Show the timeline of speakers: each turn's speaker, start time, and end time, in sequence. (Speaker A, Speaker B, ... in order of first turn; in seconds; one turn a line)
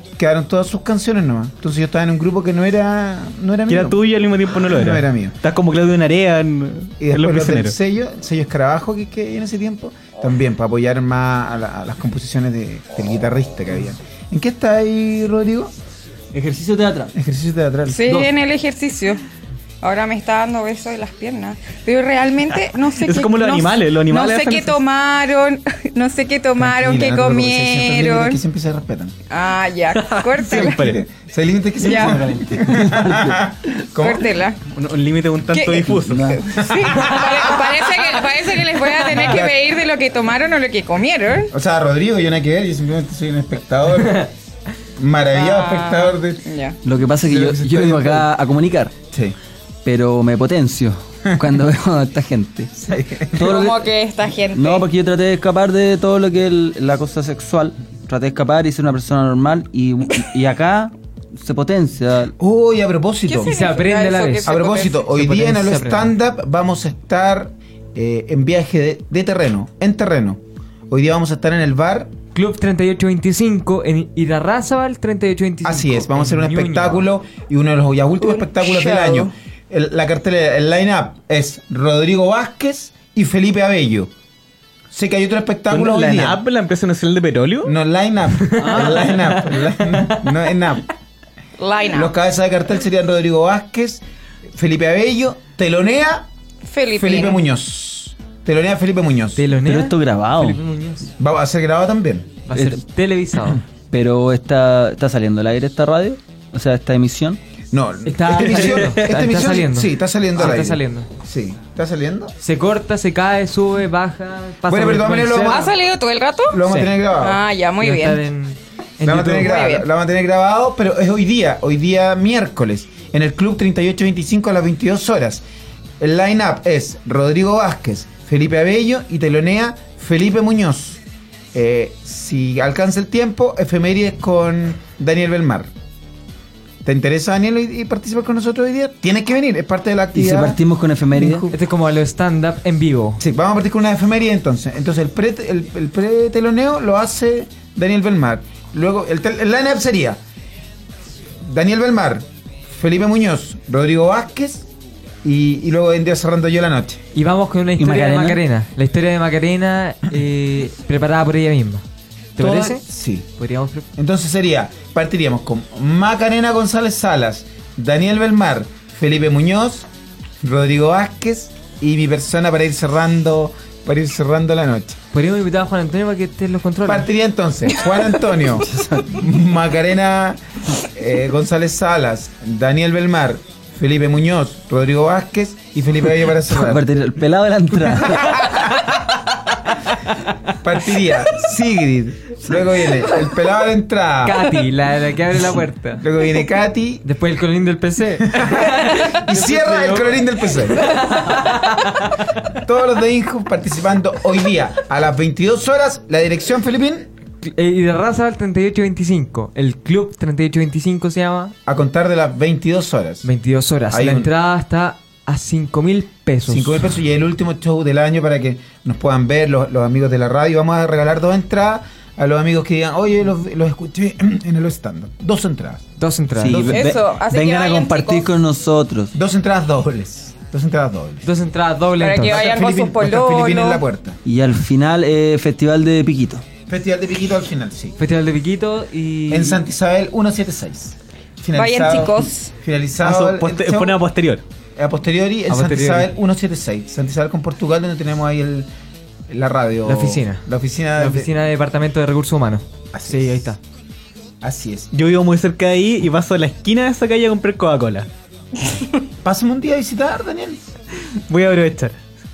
Speaker A: 0.2-4.0
Speaker B: 3.7-7.7
Speaker A: 4.5-5.4
Speaker A: 7.0-15.7
Speaker C: 16.3-17.1
Speaker A: 17.1-18.3
Speaker D: 17.9-19.2
Speaker D: 19.8-28.4
Speaker B: 23.0-24.8
Speaker A: 26.6-29.1
Speaker D: 29.3-31.0
Speaker B: 29.9-31.0
Speaker A: 30.7-34.3
Speaker D: 31.8-32.2
Speaker C: 31.9-33.4
Speaker D: 34.0-34.6
Speaker B: 34.7-36.3
Speaker D: 35.5-35.9
Speaker C: 36.0-36.4
Speaker A: 36.2-37.7
Speaker D: 36.5-41.5
Speaker A: 39.1-39.5
Speaker A: 41.5-44.3
Speaker A: 45.0-46.4
Speaker D: 45.3-46.8
Speaker C: 46.8-48.9
Speaker A: 47.2-48.3
Speaker A: 49.1-49.4
Speaker C: 49.8-52.8
Speaker A: 52.9-53.5
Speaker C: 53.3-53.9
Speaker D: 53.4-54.9
Speaker C: 54.5-62.3
Speaker A: 62.4-63.6
Speaker D: 63.2-65.0
Speaker E: 63.4-66.1
Speaker A: 64.4-72.1
Speaker E: 72.3-77.0
Speaker A: 75.6-84.1
Speaker D: 78.4-79.3
Speaker A: 84.9-86.4
Speaker B: 85.7-87.7
Speaker A: 87.6-90.8
Speaker B: 88.8-89.1
Speaker D: 91.6-92.1
Speaker A: 91.9-96.3
Speaker D: 96.6-97.4
Speaker A: 96.9-99.4
Speaker E: 99.3-101.1
Speaker C: 99.6-100.6
Speaker A: 101.2-102.4
Speaker E: 102.5-103.6
Speaker C: 102.5-102.8
Speaker C: 103.9-107.4
Speaker A: 107.7-112.3
Speaker E: 108.0-111.1
Speaker E: 112.4-115.7
Speaker A: 114.7-115.7
Speaker D: 115.4-118.2
Speaker A: 116.5-117.4
Speaker E: 117.8-119.5
Speaker A: 119.0-125.4
Speaker D: 119.3-119.8
Speaker A: 126.0-131.0
Speaker A: 131.5-135.7
Speaker A: 136.8-140.6
Speaker C: 140.1-141.5
Speaker A: 141.1-141.5
Speaker E: 141.5-143.2
Speaker A: 143.2-150.2
Speaker A: 151.4-154.7
Speaker A: 155.2-157.0
Speaker E: 157.1-161.8
Speaker C: 157.8-158.4
Speaker E: 162.4-162.8
Speaker A: 162.4-163.3
Speaker E: 163.3-163.9
Speaker A: 163.9-169.9
Speaker A: 170.4-175.0
Speaker E: 175.1-177.1
Speaker A: 176.8-186.9
Speaker C: 178.6-179.1
Speaker C: 186.5-188.4
Speaker A: 188.0-188.8
Speaker A: 190.6-194.6
Speaker E: 194.2-196.1
Speaker A: 196.0-197.1
Speaker E: 197.0-200.2
Speaker A: 198.2-201.1
Speaker E: 200.7-202.2
Speaker A: 202.5-207.1
Speaker E: 207.4-211.5
Speaker A: 211.7-213.3
Speaker E: 213.2-216.8
Speaker A: 213.9-214.3
Speaker A: 216.5-225.8
Speaker E: 226.0-226.7
Speaker A: 226.3-226.9
Speaker C: 226.4-229.1
Speaker D: 226.6-228.3
Speaker A: 229.1-231.3
Speaker E: 231.2-232.4
Speaker D: 232.0-233.8
Speaker A: 232.2-234.2
Speaker C: 234.2-236.4
Speaker A: 236.7-237.9
Speaker E: 238.0-239.6
Speaker A: 239.3-244.0
Speaker D: 241.5-242.5
Speaker B: 243.0-244.4
Speaker A: 244.8-248.7
Speaker E: 245.5-246.1
Speaker A: 249.3-251.3
Speaker E: 249.8-250.4
Speaker E: 251.0-253.6
Speaker A: 252.9-253.5
Speaker A: 254.4-254.9
Speaker B: 254.9-258.1
Speaker A: 259.2-260.6
Speaker B: 261.3-262.0